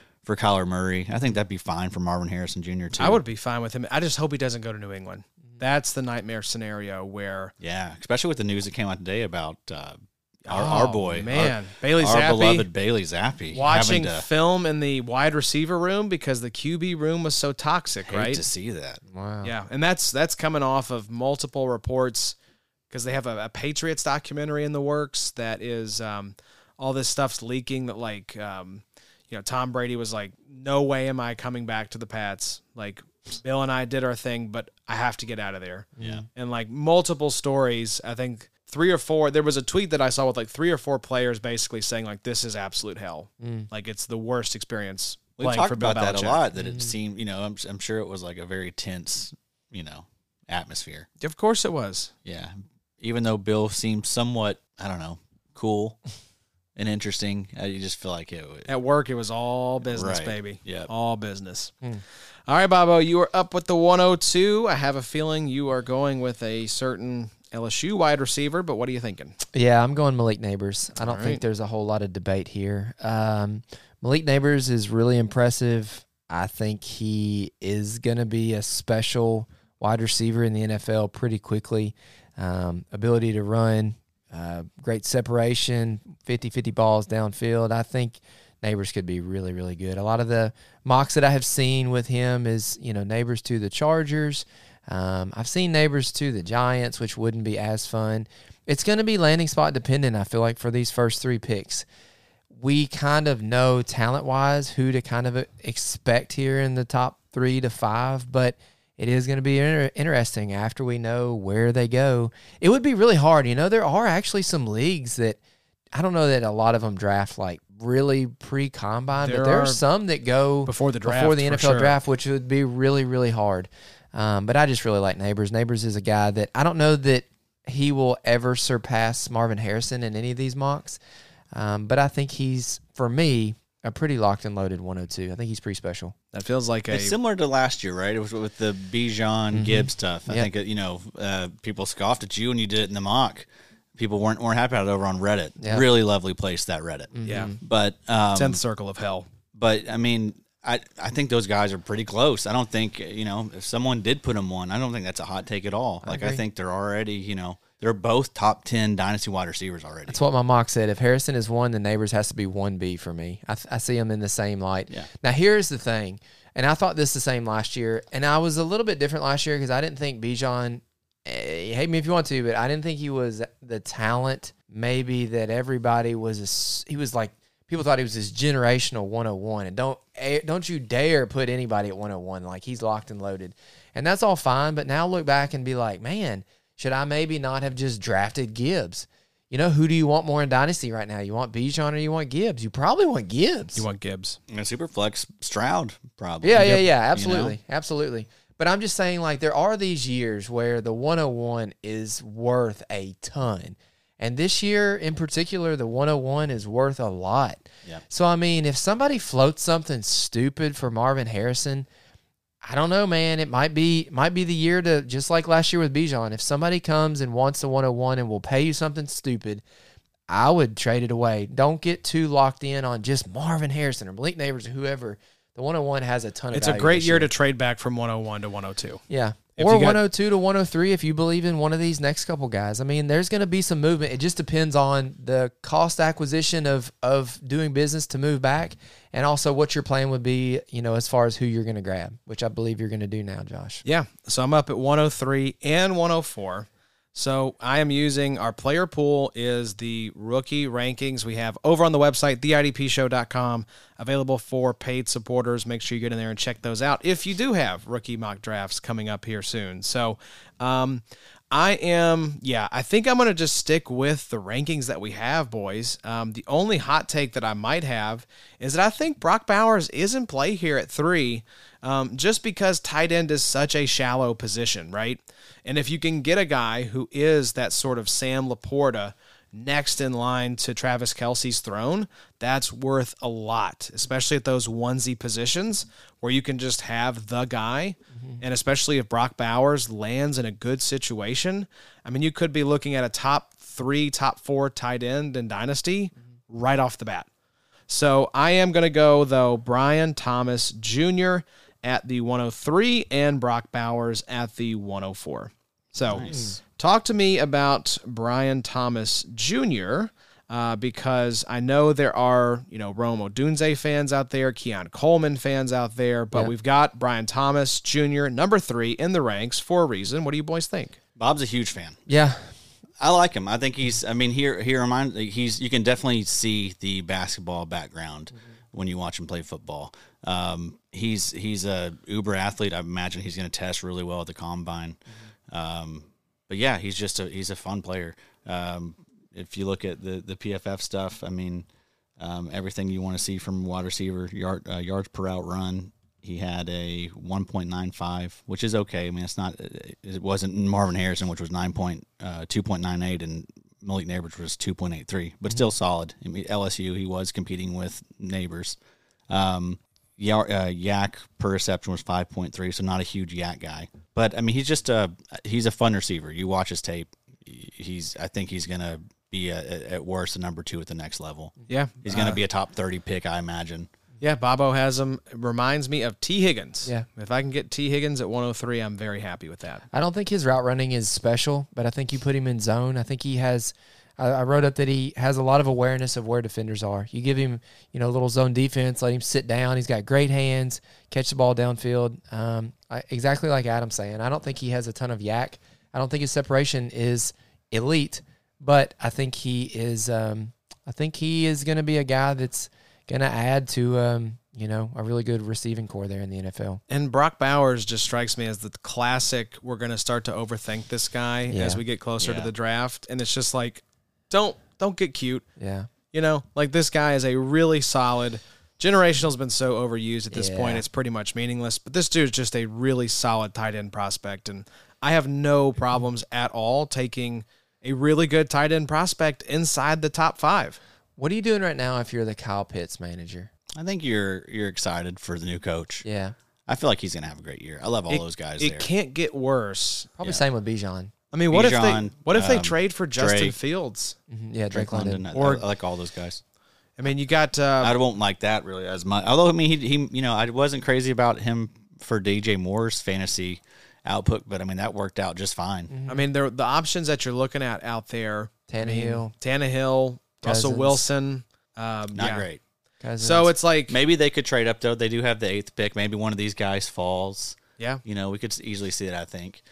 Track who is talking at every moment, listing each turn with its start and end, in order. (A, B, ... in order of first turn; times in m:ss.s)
0:00.2-0:03.2 A
0:03.0-0:07.5 B
0:07.6-0:14.2 A
0:10.5-0:12.7 B
0:13.5-0:18.4 B
0:18.1-0:19.0 A
0:19.1-0:19.5 C
0:19.4-0:22.3 B
0:22.9-0:46.4 B
0:36.0-0:36.2 C
0:36.0-0:36.2 A
0:43.4-0:43.7 C
0:45.4-0:51.1 A
0:46.6-0:46.9 C
0:51.2-0:52.1 B
0:52.2-0:56.0 A
0:56.8-0:58.7 A
0:58.7-1:01.7 B
0:59.8-1:00.9 A
1:02.5-1:09.3 B
1:09.5-1:41.8 C
1:11.0-1:11.4 B
1:42.5-1:55.4 C
1:55.9-2:11.0 C
1:59.2-1:59.8 B
2:00.6-2:02.0 B
2:11.5-2:16.1 C
2:16.3-2:17.1 B
2:16.9-2:28.6 A
2:19.5-2:20.5 C
2:27.1-2:27.6 C
2:27.3-2:27.5 B
2:28.3-2:29.3 B
2:29.5-2:40.2 A
2:36.0-2:36.4 C
2:40.1-3:13.8 C
3:13.7-3:14.4 B
3:14.5-3:17.6 A
3:16.4-3:31.9 C
3:32.6-3:39.6 C
3:40.3-3:47.3 C
3:46.5-3:49.0 B
3:49.1-4:03.8 C
3:49.6-3:50.0 B
4:03.8-4:57.3 B
4:57.9-5:21.0 B
5:06.0-5:06.5 A
5:06.2-5:06.6 C
5:21.2-5:22.0 A
5:22.1-5:22.5 C
5:23.0-5:41.6 A
5:42.2-5:58.8 A
5:59.3-6:13.9 A
6:11.7-6:12.3 B
6:14.2-6:19.8 B
6:19.9-6:46.8 C
6:46.9-6:55.4 B
6:51.5-6:51.8 C
6:52.2-6:52.5 A
6:55.6-6:55.9 C
6:56.1-7:10.8 B
7:00.3-7:00.8 C
7:11.2-7:13.5 C
7:13.8-7:16.0 A
7:16.0-7:16.3 C
7:16.7-7:18.9 A
7:18.1-7:20.1 B
7:20.2-7:21.1 C
7:21.3-7:24.2 B
7:21.5-7:23.5 A
7:24.3-7:25.3 C
7:24.7-7:26.4 A
7:25.3-7:25.6 B
7:27.0-7:27.9 B
7:27.8-7:35.9 A
7:35.9-7:36.2 C
7:36.1-7:42.4 B
7:38.7-7:39.3 C
7:40.4-7:41.0 C
7:42.1-7:42.6 A
7:43.0-7:43.5 C
7:43.2-7:44.0 B
7:43.9-7:49.6 A